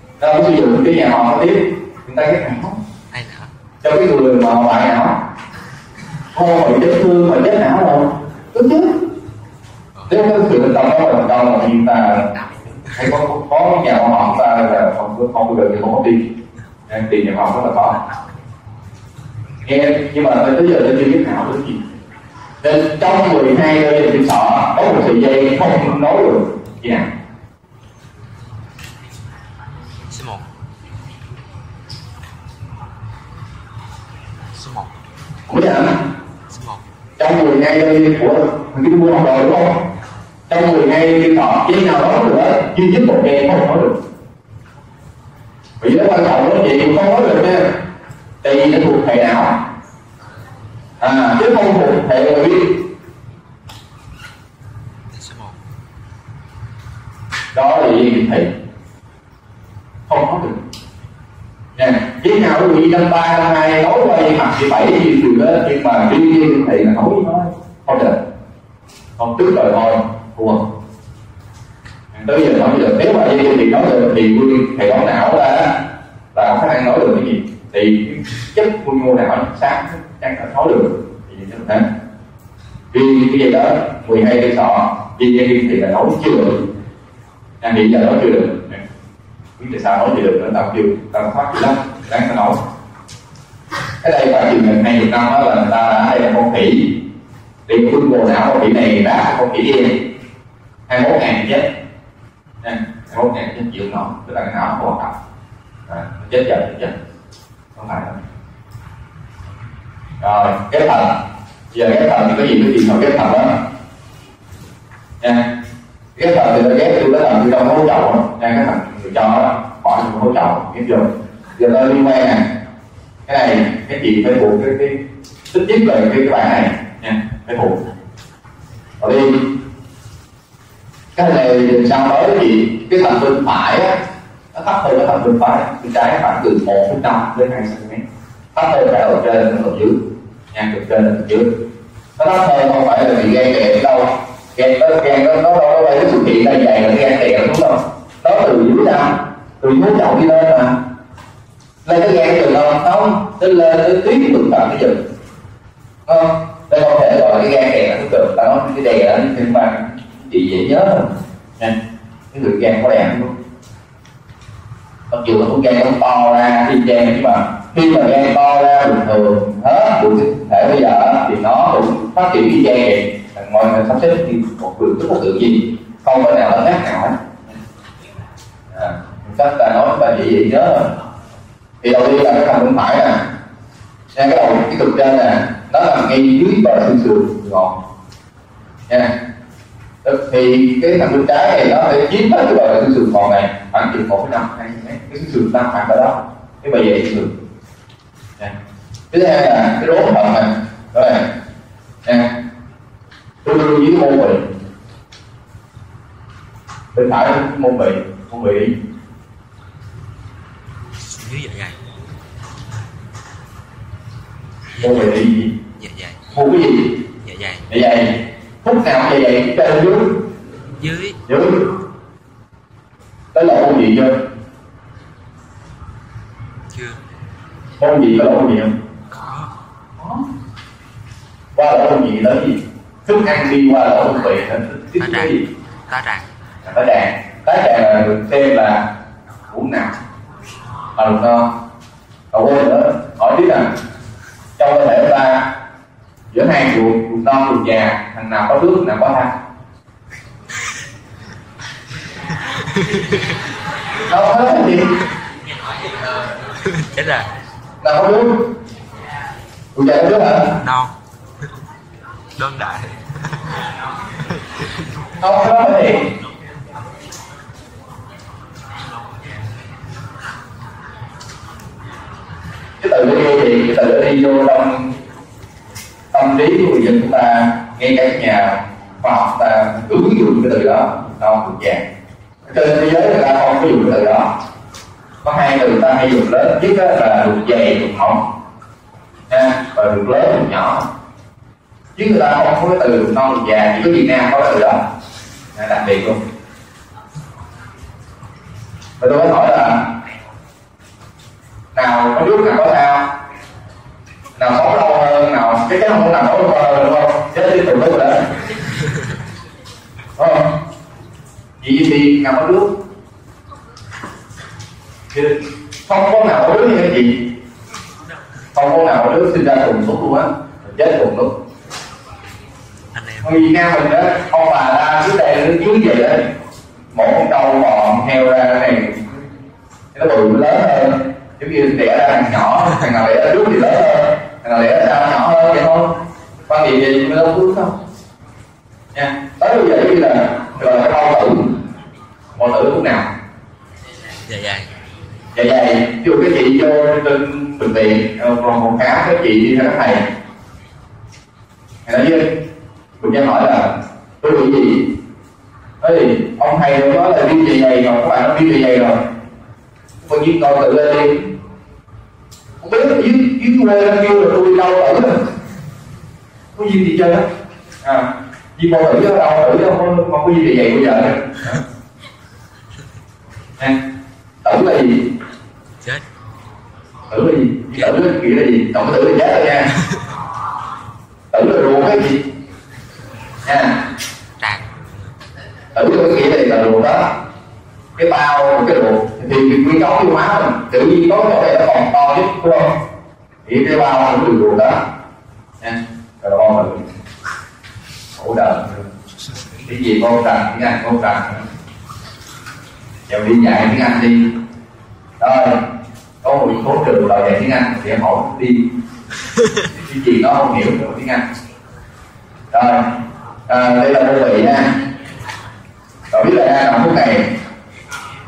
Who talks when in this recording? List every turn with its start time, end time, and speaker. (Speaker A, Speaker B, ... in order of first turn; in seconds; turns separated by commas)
Speaker A: 0.2-2.8, Speaker B: 3.1-3.5, Speaker A: 3.8-5.2, Speaker A: 6.3-9.0, Speaker A: 10.1-12.3, Speaker A: 12.9-16.2, Speaker A: 16.9-18.0, Speaker A: 19.6-21.8, Speaker A: 22.6-27.1, Speaker B: 30.1-30.5, Speaker B: 34.5-34.9, Speaker A: 35.5-36.0, Speaker B: 36.5-36.8, Speaker A: 37.2-39.9, Speaker A: 40.5-44.0, Speaker A: 45.8-47.8, Speaker A: 48.4-49.6, Speaker A: 51.0-52.9, Speaker B: 55.1-55.6, Speaker A: 57.5-58.5, Speaker A: 60.1-60.6, Speaker A: 61.8-68.2, Speaker A: 69.2-70.7, Speaker A: 72.1-81.8, Speaker A: 82.9-86.6, Speaker A: 87.6-88.8, Speaker A: 89.6-92.6, Speaker A: 94.0-97.0, Speaker A: 97.7-100.1, Speaker A: 100.9-101.7, Speaker A: 102.6-105.1, Speaker A: 105.9-106.9, Speaker A: 107.8-108.2, Speaker A: 110.2-111.2, Speaker A: 111.7-113.6, Speaker A: 115.2-115.5, Speaker A: 116.2-122.4, Speaker A: 123.3-125.0, Speaker A: 125.5-127.8, Speaker A: 129.0-129.5, Speaker A: 131.2-134.0, Speaker A: 134.5-138.0, Speaker A: 138.5-140.0, Speaker A: 140.5-141.6, Speaker A: 142.2-150.8, Speaker A: 151.8-155.0, Speaker A: 156.1-161.8, Speaker A: 162.3-163.3, Speaker A: 165.1-177.2, Speaker A: 178.7-180.9, Speaker A: 181.8-183.2, Speaker A: 184.1-187.8, Speaker A: 188.9-189.1, Speaker A: 190.0-197.3, Speaker A: 199.1-201.2, Speaker A: 202.0-202.3, Speaker A: 203.4-204.4, Speaker A: 206.9-208.8, Speaker B: 211.0-211.8, Speaker B: 214.7-215.1, Speaker A: 214.8-215.5, Speaker B: 215.8-216.3, Speaker A: 216.3-217.1, Speaker B: 217.2-217.7, Speaker A: 217.7-220.3, Speaker B: 220.8-221.2, Speaker A: 221.3-221.7, Speaker A: 223.3-224.2, Speaker B: 226.7-227.0, Speaker A: 227.8-228.7, Speaker B: 229.1-229.5, Speaker A: 230.0-230.2, Speaker A: 231.6-235.4, Speaker B: 235.0-235.3, Speaker B: 235.9-236.3, Speaker A: 236.6-238.9, Speaker A: 239.5-240.0, Speaker A: 240.9-241.5, Speaker A: 242.3-243.7, Speaker A: 244.6-245.5, Speaker A: 246.3-249.3, Speaker B: 252.4-253.4, Speaker A: 254.1-255.0, Speaker B: 256.0-257.3, Speaker A: 257.8-258.5, Speaker A: 259.8-260.6, Speaker B: 260.6-261.0, Speaker B: 262.4-265.1, Speaker A: 265.2-266.1, Speaker A: 272.8-274.9, Speaker A: 276.1-281.8, Speaker A: 282.4-284.3, Speaker A: 285.2-288.2, Speaker A: 289.3-290.9, Speaker A: 291.9-294.9, Speaker A: 295.5-296.2, Speaker A: 299.0-299.9, Speaker A: 301.8-303.1, Speaker A: 304.4-308.3, Speaker A: 310.2-310.5, Speaker A: 311.6-312.7, Speaker A: 315.1-317.3, Speaker A: 318.5-321.3, Speaker B: 322.9-323.4, Speaker A: 323.2-326.3, Speaker A: 326.9-329.2, Speaker A: 329.9-337.8, Speaker A: 338.9-341.6, Speaker A: 342.4-343.1, Speaker B: 344.2-344.7, Speaker A: 345.4-350.0, Speaker A: 351.9-352.4, Speaker A: 353.0-355.0, Speaker A: 355.8-359.0, Speaker A: 360.0-361.3, Speaker A: 362.6-365.3, Speaker A: 366.6-367.3, Speaker A: 367.8-371.6, Speaker A: 374.4-375.1, Speaker A: 377.1-379.7, Speaker A: 381.3-382.2, Speaker A: 383.4-383.8, Speaker B: 384.4-385.1, Speaker A: 385.7-387.2, Speaker A: 388.0-392.8, Speaker A: 393.4-394.9, Speaker A: 395.6-396.9, Speaker A: 398.2-398.9, Speaker A: 399.6-401.4, Speaker A: 403.1-404.4, Speaker A: 405.2-405.7, Speaker A: 406.2-408.7, Speaker A: 409.7-411.2, Speaker A: 412.5-414.7, Speaker A: 416.1-417.3